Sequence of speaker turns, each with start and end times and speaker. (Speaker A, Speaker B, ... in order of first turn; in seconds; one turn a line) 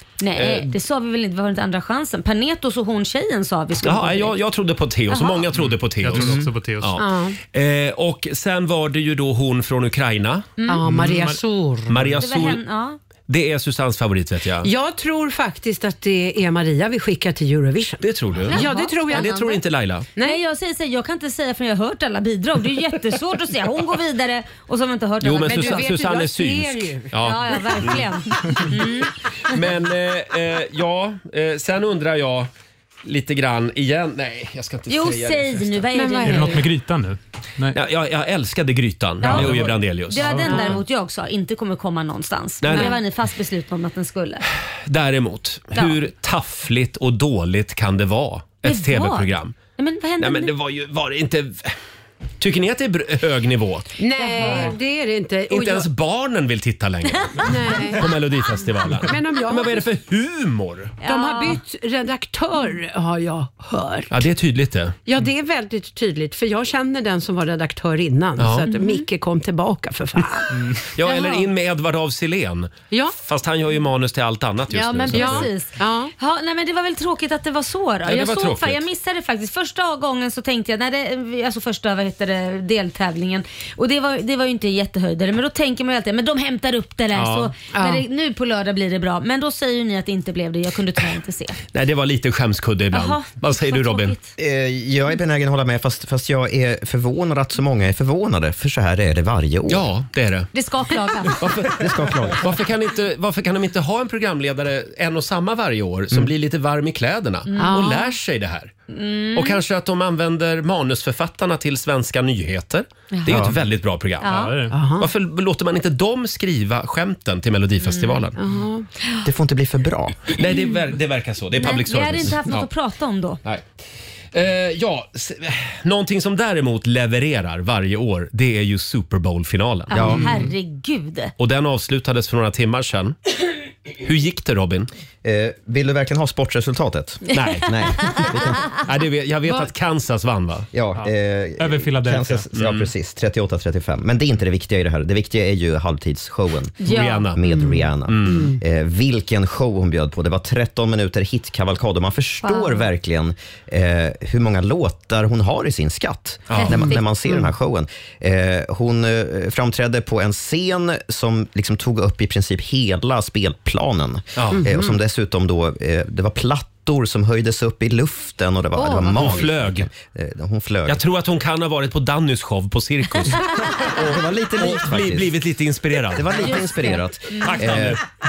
Speaker A: 0.2-4.4
Speaker B: 0.4-0.7
Speaker B: 3.8-10.5
Speaker A: 5.1-5.5
Speaker C: 6.0-7.0
Speaker D: 7.0-7.4
Speaker D: 10.7-12.1
Speaker C: 10.9-11.4
Speaker B: 11.9-12.6
Speaker A: 12.2-13.0
Speaker B: 13.3-14.7
Speaker D: 14.6-19.4
Speaker B: 18.0-20.1
Speaker A: 18.5-19.6
Speaker A: 20.2-25.9
Speaker B: 25.2-28.0
Speaker D: 25.5-27.8
Speaker A: 27.1-29.5
Speaker B: 29.5-32.5
Speaker B: 33.0-35.9
Speaker A: 34.9-36.7
Speaker D: 35.9-36.7
Speaker C: 36.2-37.8
Speaker B: 37.7-40.8
Speaker A: 39.2-44.5
Speaker C: 39.2-40.8
Speaker B: 42.6-43.0
Speaker B: 44.9-49.6
Speaker A: 48.6-50.5
Speaker B: 50.2-51.8
Speaker B: 52.4-53.9
Speaker D: 54.0-55.9
Speaker A: 54.2-54.8
Speaker B: 55.5-61.0
Speaker A: 57.2-57.9
Speaker D: 57.5-58.2
Speaker D: 59.0-59.8
Speaker A: 61.0-61.6
Speaker D: 61.0-64.2
Speaker B: 64.1-65.0
Speaker D: 65.1-70.8
Speaker B: 68.4-68.7
Speaker A: 68.7-69.1
Speaker B: 71.0-75.5
Speaker A: 71.0-71.5
Speaker A: 74.7-91.6
Speaker D: 75.1-76.1
Speaker B: 78.0-78.8
Speaker B: 87.1-87.5
Speaker D: 87.7-88.0
Speaker B: 91.7-94.1
Speaker A: 92.9-94.3
Speaker E: 94.4-99.9
Speaker B: 99.7-100.5
Speaker A: 100.5-101.4
Speaker B: 101.4-101.8
Speaker E: 101.6-102.4
Speaker B: 102.4-108.7
Speaker A: 107.5-108.0
Speaker D: 107.6-108.1
Speaker A: 108.9-109.6
Speaker B: 109.3-118.4
Speaker A: 113.1-113.4
Speaker E: 113.3-113.5
Speaker A: 114.2-114.5
Speaker C: 114.3-114.7
Speaker D: 114.7-115.1
Speaker A: 117.8-118.2
Speaker D: 118.4-118.9
Speaker E: 119.2-120.3
Speaker B: 120.3-122.7
Speaker A: 121.6-123.4
Speaker B: 124.3-130.2
Speaker E: 129.9-130.3
Speaker A: 129.9-131.3
Speaker B: 131.4-133.2
Speaker B: 134.0-134.9
Speaker E: 135.2-138.7
Speaker A: 137.3-138.3
Speaker B: 137.3-137.8
Speaker B: 138.8-140.7
Speaker E: 140.7-171.0
Speaker C: 141.0-142.5
Speaker B: 142.6-142.9
Speaker A: 146.8-147.3
Speaker B: 146.9-147.4
Speaker D: 147.5-148.6
Speaker B: 148.1-148.5
Speaker A: 152.4-152.8
Speaker B: 156.5-156.8
Speaker A: 156.6-157.0
Speaker D: 156.7-157.5
Speaker B: 164.4-164.7
Speaker D: 164.5-165.0
Speaker A: 168.8-169.5
Speaker B: 169.1-169.9
Speaker B: 170.9-174.0
Speaker E: 173.8-175.4
Speaker B: 174.6-176.4
Speaker E: 176.1-178.0
Speaker A: 176.4-177.5
Speaker B: 177.5-178.0